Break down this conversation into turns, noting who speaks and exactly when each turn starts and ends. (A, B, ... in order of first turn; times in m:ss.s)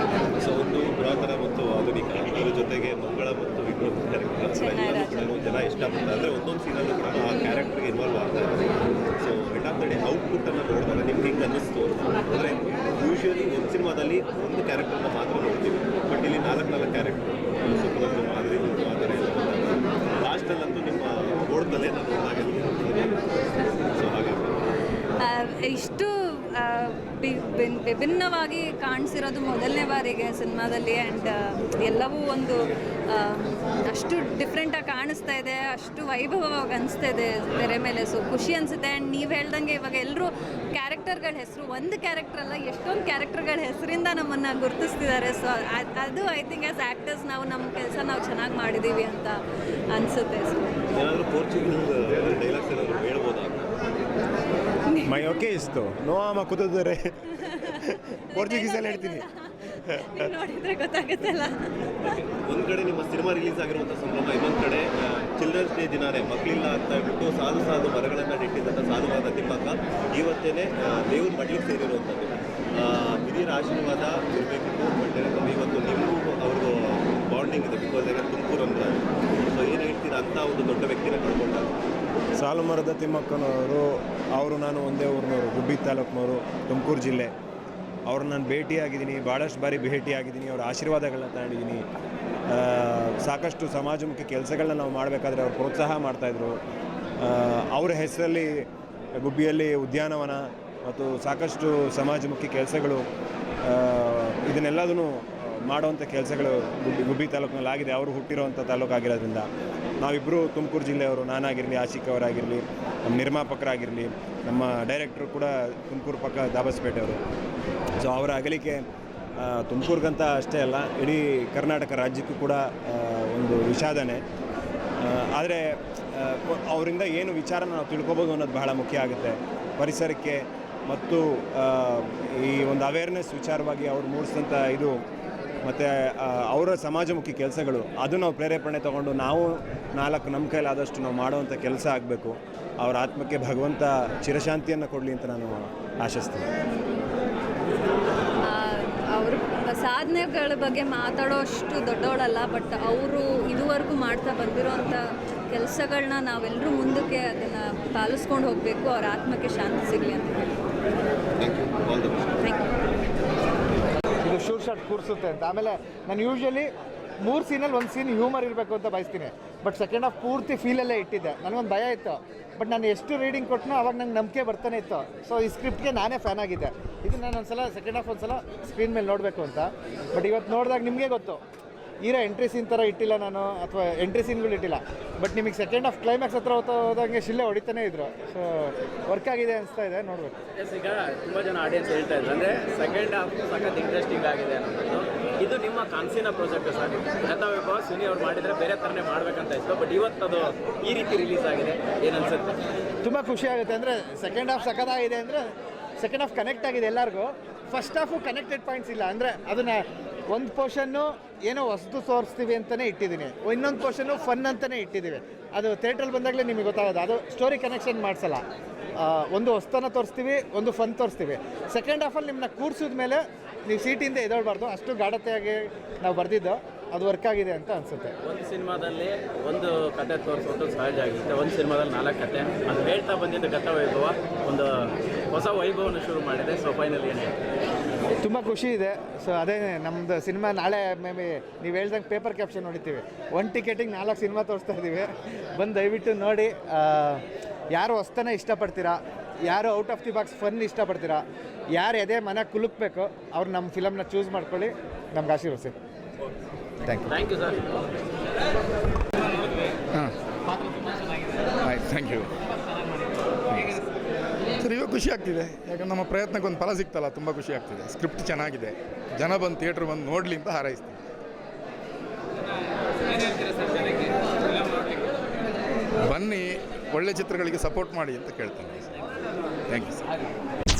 0:00.4-0:23.2 A
0:04.5-0:05.3 B
0:23.9-0:24.6 A
0:25.2-0:49.4 B
0:49.9-0:50.6 B
0:50.9-0:53.7 A
0:54.9-0:55.2 B
0:55.0-0:59.2 C
0:57.4-1:01.8 B
0:59.9-1:00.2 C
1:02.0-1:21.7 A
1:22.4-1:27.3 C
1:28.1-1:31.8 C
1:32.5-1:36.6 C
1:37.2-1:43.0 C
1:43.6-1:49.5 C
1:50.0-1:57.2 C
1:58.0-1:58.8 C
1:59.4-2:04.2 C
2:05.0-2:14.9 C
2:15.6-2:26.5 C
2:28.4-2:40.5 B
2:41.4-2:42.4 A
2:44.2-2:46.7 D
2:47.2-3:01.4 D
3:02.0-3:10.3 D
3:10.6-3:22.5 E
3:23.0-3:25.4 D
3:26.0-3:38.4 D
3:39.0-3:48.1 D
3:48.2-3:57.3 E
3:58.2-4:11.2 D
4:11.7-4:15.7 D
4:16.8-4:17.2 D
4:17.1-4:17.6 E
4:21.6-4:22.3 F
4:23.5-4:23.8 F
4:24.6-4:31.0 F
4:36.0-4:39.1 F
4:39.7-4:40.0 F